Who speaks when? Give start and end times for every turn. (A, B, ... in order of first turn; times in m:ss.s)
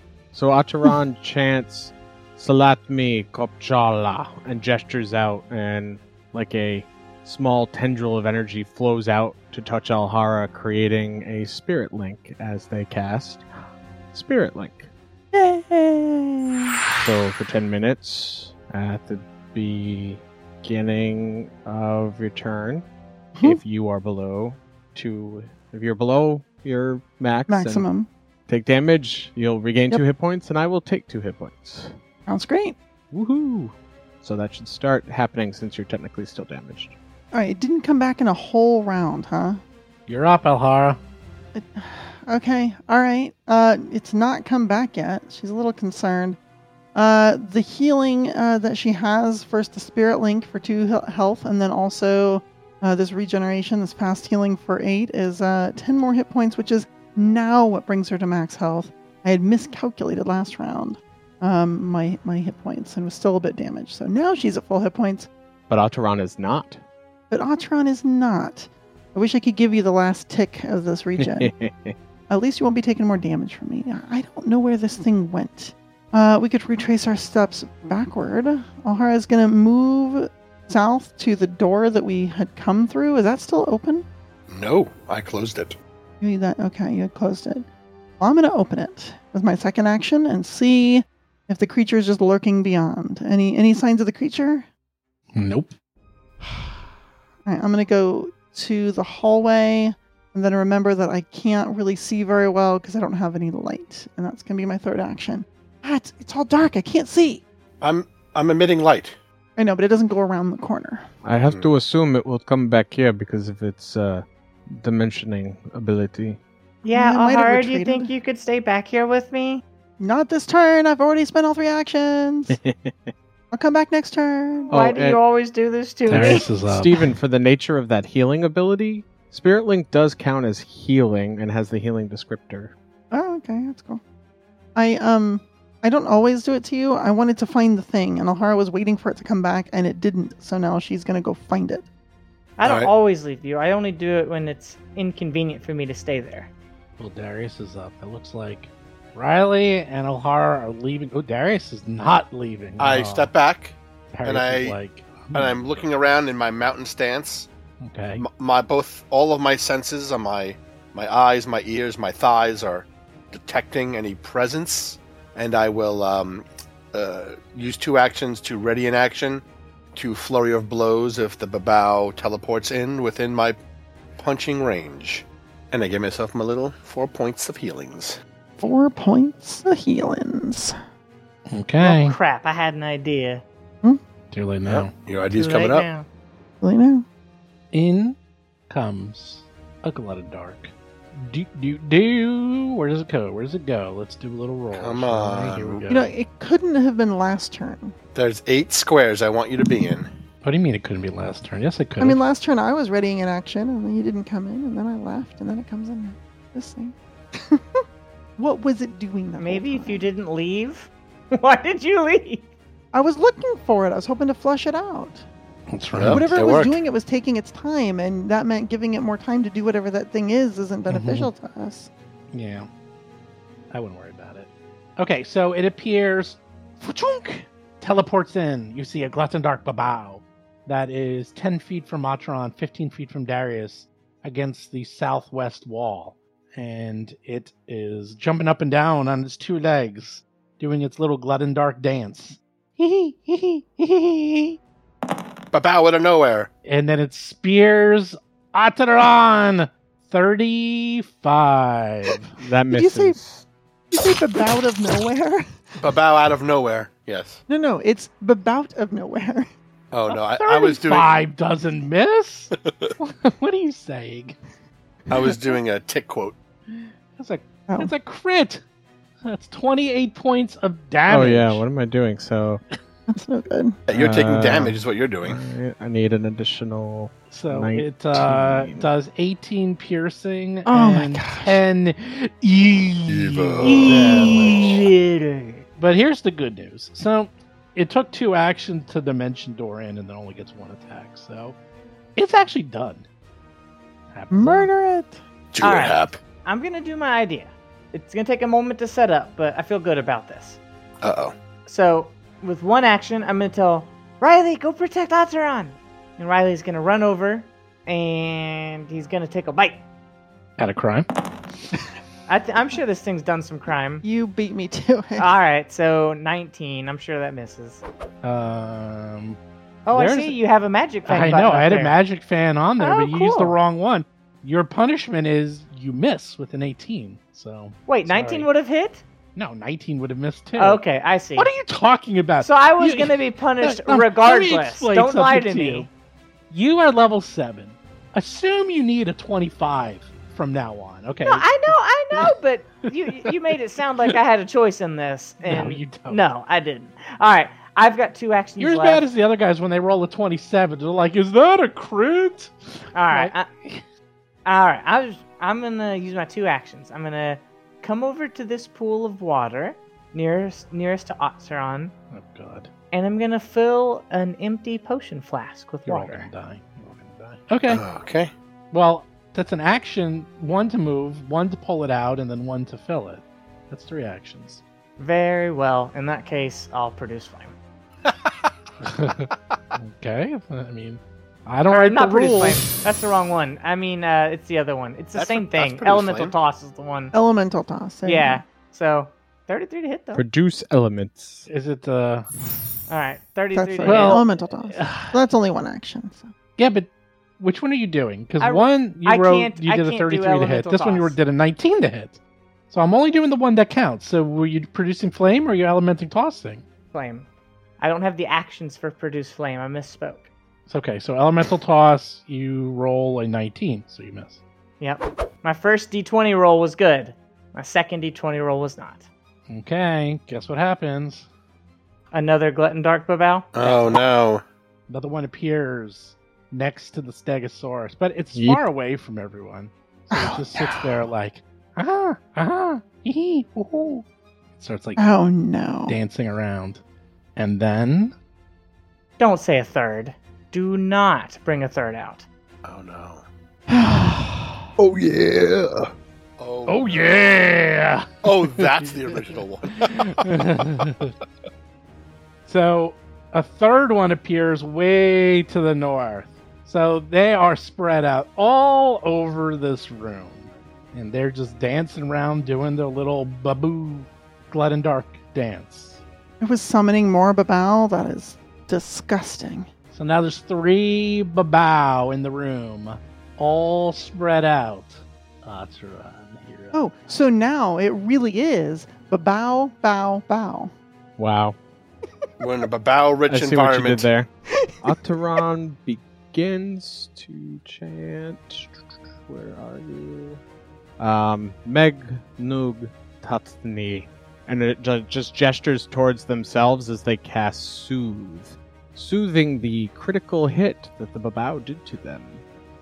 0:00.3-0:13.4 A
0:14.1-0:14.9 A
0:15.3-0:16.8 B
0:17.0-0:22.8 A
0:23.4-0:27.9 A
0:27.5-0:28.1 B
0:28.5-0:31.9 A
0:32.3-0:32.8 B
0:33.1-0:37.0 A
0:37.3-0:39.6 B
0:40.1-0:41.0 C
0:41.5-0:46.4 B
0:47.0-1:05.3 B
1:05.7-1:06.8 A
1:07.3-1:11.5 B
1:11.2-1:12.0 A
1:12.3-1:24.1 B
1:24.5-1:25.8 D
1:26.2-1:27.7 B
1:28.2-1:34.7 B
1:35.4-1:35.7 C
1:37.5-1:47.4 B
1:47.8-1:49.2 D
1:49.6-1:51.1 B
1:51.2-1:56.4 A
1:51.4-1:51.7 D
1:56.8-1:59.6 E
1:56.9-1:58.1 B
2:00.0-2:02.6 B
2:02.5-2:03.1 A
2:03.5-2:04.7 B
2:04.7-2:05.2 A
2:04.7-2:06.4 E
2:06.1-2:07.1 C
2:06.1-2:12.7 A
2:13.1-2:14.0 B
2:14.8-2:21.9 B
2:22.6-2:26.5 E
2:22.6-2:22.9 D
2:27.0-2:33.3 C
2:32.8-2:34.8 D
2:34.1-2:35.9 C
2:35.3-2:37.5 D
2:37.8-2:38.2 C
2:38.2-2:49.4 D
2:50.0-2:53.6 D
2:54.2-2:58.2 D
2:58.6-3:00.7 B
3:01.5-3:02.2 C
3:01.8-3:03.4 E
3:04.3-3:04.9 C
3:04.7-3:05.9 D
3:05.3-3:06.1 E
3:06.6-3:07.0 B
3:07.7-3:08.2 C
3:08.7-3:16.1 C
3:14.7-3:15.9 D
3:15.9-3:18.0 B
3:18.2-3:20.1 D
3:20.4-3:22.2 C
3:22.0-3:27.8 B
3:28.4-3:30.1 B
3:29.4-3:32.5 E
3:32.9-3:35.2 B
3:35.7-3:36.4 C
3:36.0-3:36.8 D
3:36.1-3:41.9 B
3:40.9-3:41.3 C
3:42.3-3:42.7 C
3:43.7-4:04.6 C
4:05.5-4:06.5 D
4:06.6-4:12.3 C
4:12.4-4:13.4 A
4:12.7-4:13.2 B
4:13.9-4:15.7 B
4:15.8-4:17.4 D
4:17.5-4:19.5 B
4:19.9-4:21.1 D
4:20.1-4:24.4 C
4:22.5-4:22.9 D
4:25.1-4:26.4 D
4:26.7-4:28.6 C
4:29.2-4:31.6 C
4:31.1-4:32.6 A
4:33.1-4:33.8 B
4:33.9-4:35.4 D
4:33.9-4:38.9 A
4:37.3-4:44.9 C
4:40.7-4:41.6 B
4:43.1-4:44.9 D
4:43.6-4:45.6 E
4:45.8-4:51.6 C
4:52.2-4:53.1 C
4:54.1-4:54.7 C
4:54.3-4:55.2 B
4:55.5-4:56.2 D
4:55.6-5:00.6 E
5:01.0-5:01.3 D
5:01.7-5:09.8 E
5:10.6-5:11.1 C
5:12.3-5:14.0 E
5:14.0-5:15.3 B
5:15.2-5:17.8 E
5:18.2-5:19.4 C
5:19.9-5:22.0 E
5:19.9-5:20.4 C
5:21.1-5:28.5 C
5:22.8-5:23.6 E
5:27.9-5:29.0 E
5:29.4-5:30.8 C
5:30.6-5:31.5 E
5:31.4-5:35.9 C
5:32.4-5:35.9 E
5:36.5-5:42.3 C
5:41.2-5:49.1 E
5:45.4-5:46.3 C
5:48.6-5:53.8 C
5:52.9-5:53.5 E
5:54.5-6:01.9 E
6:02.1-6:02.7 C
6:02.9-6:06.3 E
6:05.9-6:07.8 C
6:07.7-6:08.3 D
6:08.7-6:14.6 C
6:15.0-6:17.6 E
6:18.8-6:22.7 C
6:21.7-6:27.1 E
6:25.2-6:26.3 D
6:27.1-6:28.4 B
6:28.0-6:30.2 E
6:30.1-6:31.5 A
6:31.5-6:32.3 C
6:32.9-6:34.3 E
6:33.5-6:36.3 B
6:33.9-6:35.2 C
6:36.6-6:42.2 C
6:38.4-6:41.2 E
6:42.7-6:46.6 C
6:46.9-6:47.3 E
6:47.8-6:50.3 E
6:50.7-6:54.4 C
6:54.8-6:59.1 E
6:59.5-7:01.3 C
7:02.1-7:04.0 E
7:03.5-7:04.4 D
7:04.9-7:14.0 C
7:08.4-7:08.6 A
7:10.1-7:10.8 B
7:14.6-7:15.1 C
7:15.0-7:16.0 B
7:15.9-7:16.8 C
7:17.4-7:18.1 C
7:19.2-7:22.3 E
7:22.6-7:23.2 D
7:23.7-7:24.7 B
7:24.8-7:27.1 D
7:26.7-7:28.8 C
7:28.2-7:30.3 D
7:29.8-7:31.1 C
7:32.5-7:46.0 C
7:46.4-7:49.7 B
7:49.9-7:56.8 C
7:56.7-8:00.7 B
8:01.2-8:01.6 A
8:02.4-8:04.1 D
8:03.3-8:04.3 A
8:04.8-8:10.4 A
8:11.0-8:22.4 A